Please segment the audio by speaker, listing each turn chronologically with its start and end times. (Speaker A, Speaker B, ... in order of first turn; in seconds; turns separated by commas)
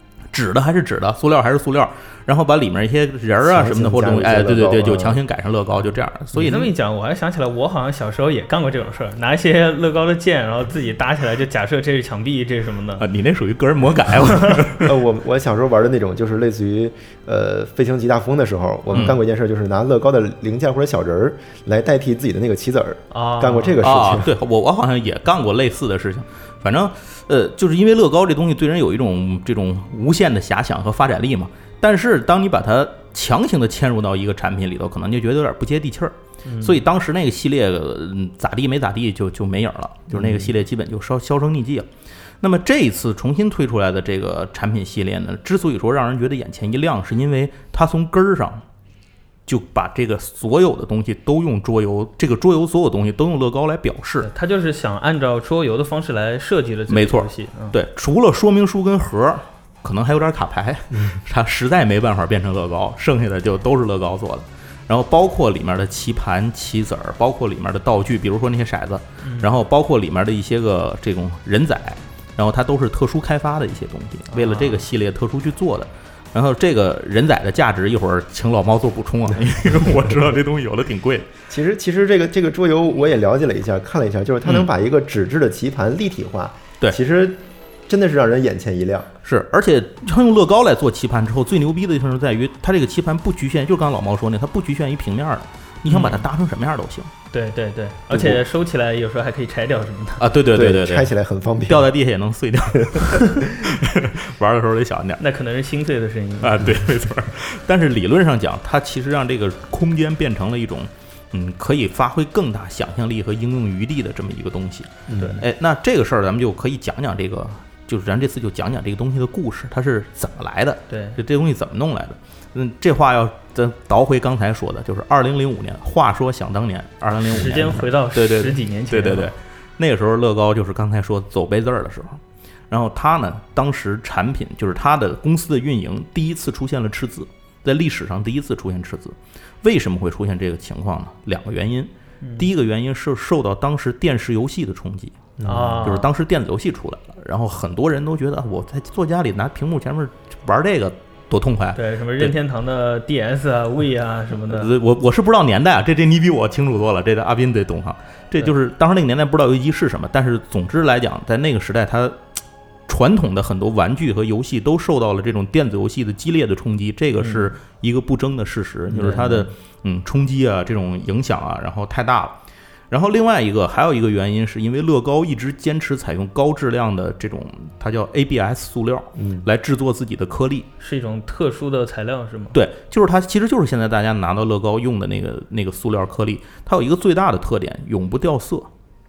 Speaker A: 0.3-6.7, Speaker B: 3.4-5.2, Speaker C: 6.3-13.1, Speaker A: 13.0-14.9, Speaker B: 14.8-24.3, Speaker C: 23.1-23.8, Speaker A: 23.8-41.9, Speaker C: 36.4-36.8, Speaker B: 40.1-40.5, Speaker A: 42.4-48.6, Speaker A: 49.5-54.3, Speaker C: 54.2-57.7, Speaker A: 56.9-81.3, Speaker C: 69.2-69.5, Speaker C: 74.3-74.8, Speaker B: 81.5-89.1, Speaker A: 89.2-97.1, Speaker C: 95.9-96.2, Speaker C: 97.3-100.2, Speaker B: 98.1-98.4, Speaker A: 100.2-101.1, Speaker B: 100.5-101.9, Speaker A: 101.6-105.2, Speaker C: 105.2-106.8, Speaker A: 106.4-145.2, Speaker B: 115.1-115.4, Speaker C: 115.2-115.4, Speaker C: 120.9-121.2, Speaker C: 127.2-129.3, Speaker C: 142.2-142.5, Speaker B: 145.4-146.0, Speaker C: 145.4-146.1, Speaker A: 145.8-152.3, Speaker C: 151.8-154.7, Speaker A: 154.5-162.2, Speaker A: 162.9-172.4, Speaker C: 167.2-167.5, Speaker C: 168.9-169.4, Speaker B: 169.0-169.5, Speaker A: 172.9-180.7, Speaker B: 179.2-179.4, Speaker C: 180.8-182.6, Speaker A: 182.5-188.7